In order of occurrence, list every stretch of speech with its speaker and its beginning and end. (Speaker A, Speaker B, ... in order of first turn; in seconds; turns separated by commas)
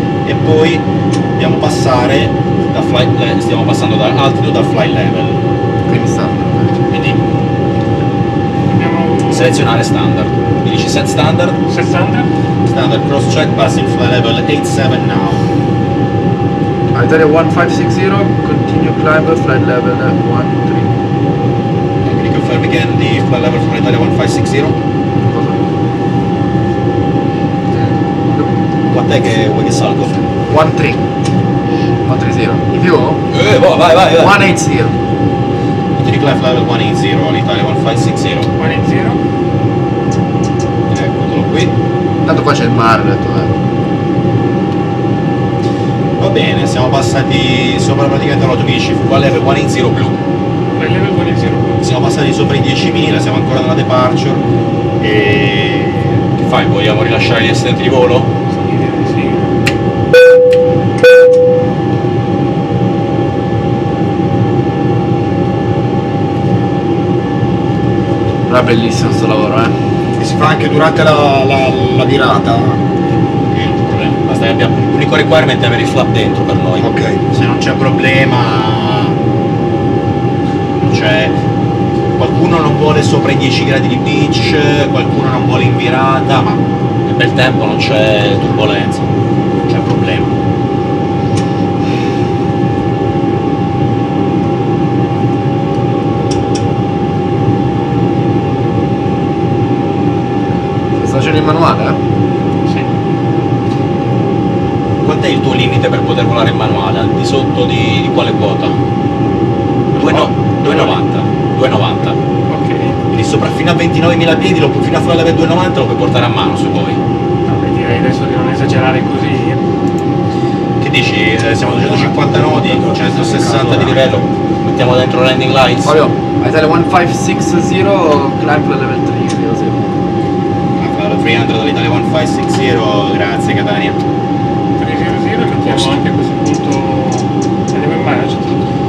Speaker A: 0.2-5.4, Speaker B: 5.8-6.8, Speaker A: 6.9-7.2, Speaker C: 8.7-9.6, Speaker A: 9.3-11.6, Speaker C: 11.7-12.3, Speaker A: 12.7-15.5, Speaker B: 16.9-20.9, Speaker A: 22.0-24.8, Speaker B: 25.2-25.6, Speaker B: 27.8-28.5, Speaker A: 28.9-30.2, Speaker B: 30.5-31.0, Speaker B: 32.0-33.2, Speaker A: 33.3-34.4, Speaker B: 34.1-35.0, Speaker A: 35.9-38.5, Speaker C: 38.6-39.2, Speaker A: 40.9-41.8, Speaker B: 42.2-43.5, Speaker A: 46.2-50.2, Speaker C: 50.7-51.8, Speaker A: 51.8-54.5, Speaker A: 55.0-58.3, Speaker C: 58.5-59.6, Speaker B: 68.5-69.8, Speaker D: 70.2-72.8, Speaker A: 73.5-79.2, Speaker D: 76.8-77.2, Speaker A: 80.8-81.4, Speaker A: 82.1-89.1, Speaker A: 89.7-90.3, Speaker B: 101.0-102.0, Speaker C: 102.7-102.9, Speaker A: 105.0-108.8, Speaker C: 109.9-111.0, Speaker A: 109.9-112.2, Speaker C: 112.5-113.0, Speaker A: 113.1-117.0, Speaker C: 117.4-119.6, Speaker A: 120.8-125.9, Speaker B: 121.7-124.2, Speaker B: 125.8-129.8, Speaker A: 130.8-134.0, Speaker C: 134.8-138.6, Speaker A: 135.6-136.0